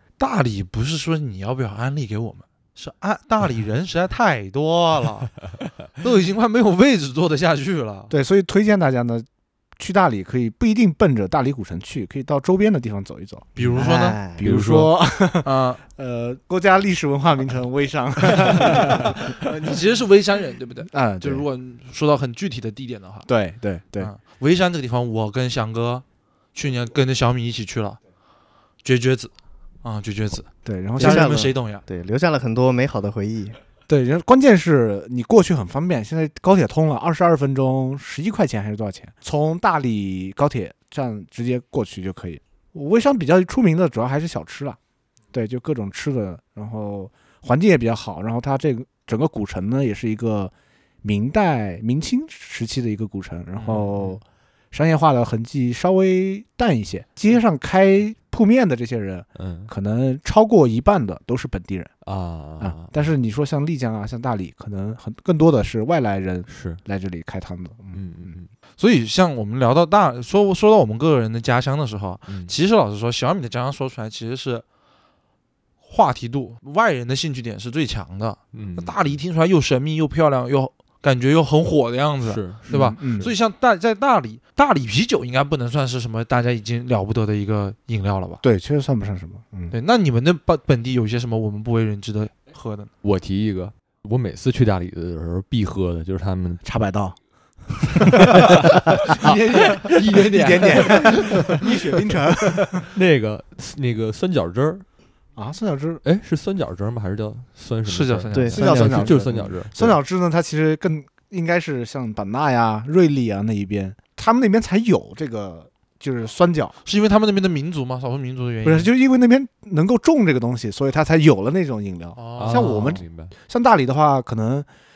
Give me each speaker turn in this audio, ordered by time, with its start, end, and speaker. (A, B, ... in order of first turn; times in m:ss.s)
0:00.2-0:08.1 A
0:08.1-0:09.2 B
0:09.8-0:19.3 B
0:13.5-0:14.2 A
0:13.8-0:14.4 C
0:14.4-0:14.9 D
0:15.4-0:15.8 A
0:19.3-0:23.3 A
0:20.9-0:21.4 B
0:23.3-0:24.1 B
0:24.0-0:26.0 A
0:26.5-0:28.0 A
0:28.8-0:29.3 A
0:29.8-0:31.8 A
0:30.6-0:31.5 B
0:31.0-0:33.6 C
0:33.9-0:44.8 B
0:45.3-0:50.5 B
0:51.0-1:01.9 B
0:53.6-0:53.9 A
0:59.4-0:59.7 D
1:02.0-1:02.9 D
1:02.6-1:08.3 B
1:06.5-1:06.8 D
1:07.9-1:08.5 D
1:08.8-1:14.6 A
1:12.3-1:12.5 D
1:15.8-1:28.4 A
1:18.5-1:19.0 D
1:22.2-1:23.3 D
1:22.7-1:23.3 B
1:28.4-1:29.7 B
1:29.7-1:32.9 A
1:33.0-1:36.6 D
1:36.6-1:37.2 B
1:38.0-1:42.9 B
1:38.2-1:38.5 D
1:39.0-1:41.7 A
1:40.7-1:41.0 D
1:42.8-1:44.8 D
1:45.4-1:46.0 B
1:46.0-1:50.0 D
1:47.8-1:49.1 A
1:48.3-1:49.2 C
1:48.6-1:56.8 B
1:56.8-1:58.9 A
1:58.6-2:04.7 B
2:02.2-2:03.0 A
2:02.4-2:03.3 D